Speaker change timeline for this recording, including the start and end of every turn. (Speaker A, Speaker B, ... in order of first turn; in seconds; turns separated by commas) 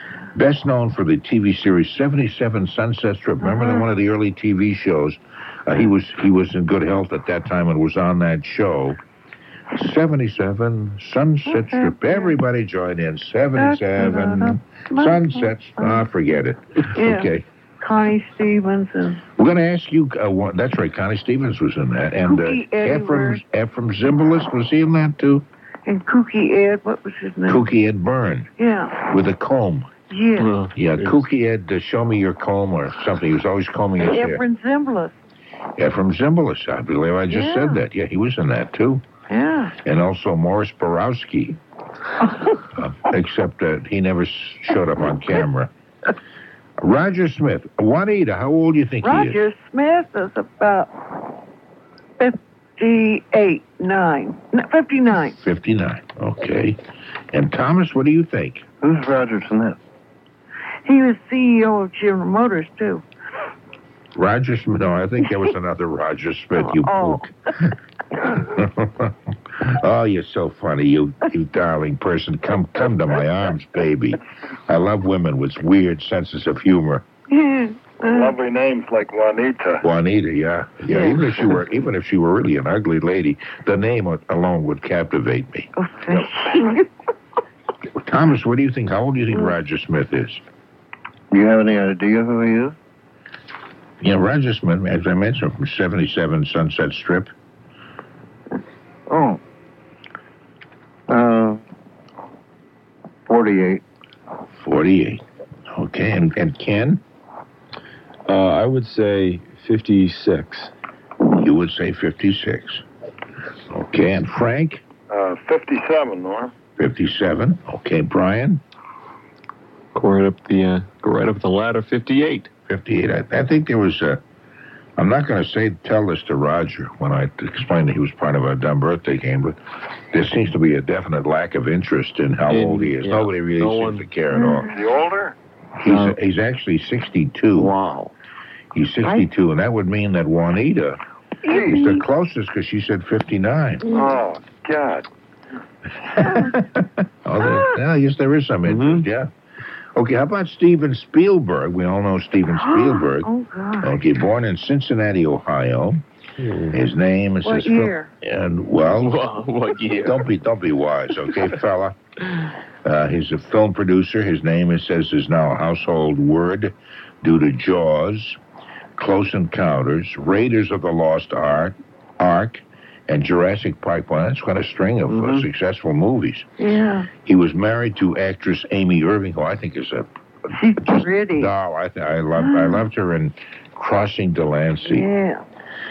Speaker A: 0.3-9.0, Speaker B: 3.4-3.9, Speaker A: 9.8-17.4, Speaker B: 11.5-12.4, Speaker B: 13.6-16.1, Speaker B: 16.9-19.2, Speaker A: 19.4-25.4, Speaker B: 22.2-23.4, Speaker B: 25.9-27.7, Speaker A: 27.5-28.5, Speaker B: 28.6-29.1, Speaker A: 29.1-29.9, Speaker B: 30.1-30.7, Speaker C: 30.4-31.2, Speaker A: 30.7-34.4, Speaker B: 34.0-35.1, Speaker A: 35.8-39.0, Speaker B: 37.3-37.8, Speaker B: 39.3-39.8, Speaker A: 39.9-41.6, Speaker A: 42.8-45.7, Speaker A: 46.8-49.4, Speaker B: 49.0-51.3, Speaker B: 52.2-55.4, Speaker A: 55.4-56.8, Speaker A: 57.3-58.6, Speaker D: 58.8-59.8, Speaker B: 60.9-63.0, Speaker A: 64.2-67.3, Speaker B: 66.6-67.3, Speaker A: 68.3-77.1, Speaker B: 77.3-78.4, Speaker E: 78.0-79.8, Speaker A: 79.8-85.7, Speaker B: 80.9-81.6, Speaker B: 85.8-86.8, Speaker A: 88.0-90.4, Speaker D: 91.3-92.8, Speaker A: 94.0-97.3, Speaker D: 99.1-99.4, Speaker D: 101.1-101.6, Speaker D: 103.3-103.8, Speaker A: 104.6-107.0, Speaker F: 108.3-110.7, Speaker A: 111.3-112.8, Speaker A: 113.7-114.8, Speaker E: 115.1-116.5, Speaker A: 116.8-118.6, Speaker C: 120.0-122.5, Speaker A: 122.7-124.2, Speaker A: 125.0-129.6, Speaker A: 130.1-134.7, Speaker C: 132.5-134.1, Speaker B: 134.3-134.8, Speaker E: 134.7-135.4, Speaker A: 135.8-137.8, Speaker C: 135.8-136.2, Speaker C: 137.6-138.1, Speaker A: 138.7-141.0, Speaker B: 141.4-142.1, Speaker A: 141.6-143.9, Speaker B: 143.8-144.2, Speaker E: 143.9-145.1, Speaker A: 146.1-149.3, Speaker B: 146.2-146.6, Speaker B: 147.4-147.8, Speaker C: 148.7-149.0, Speaker A: 149.9-153.3, Speaker B: 152.6-154.0, Speaker A: 153.8-156.0, Speaker F: 156.4-156.8, Speaker A: 156.7-159.2, Speaker B: 157.4-158.1, Speaker C: 158.9-160.3, Speaker A: 160.0-162.0, Speaker A: 162.8-168.4, Speaker A: 169.0-176.5, Speaker C: 175.1-175.4, Speaker B: 176.6-177.1, Speaker A: 177.2-180.1, Speaker B: 180.5-181.5, Speaker A: 180.8-185.1, Speaker B: 182.4-182.9, Speaker B: 184.8-185.4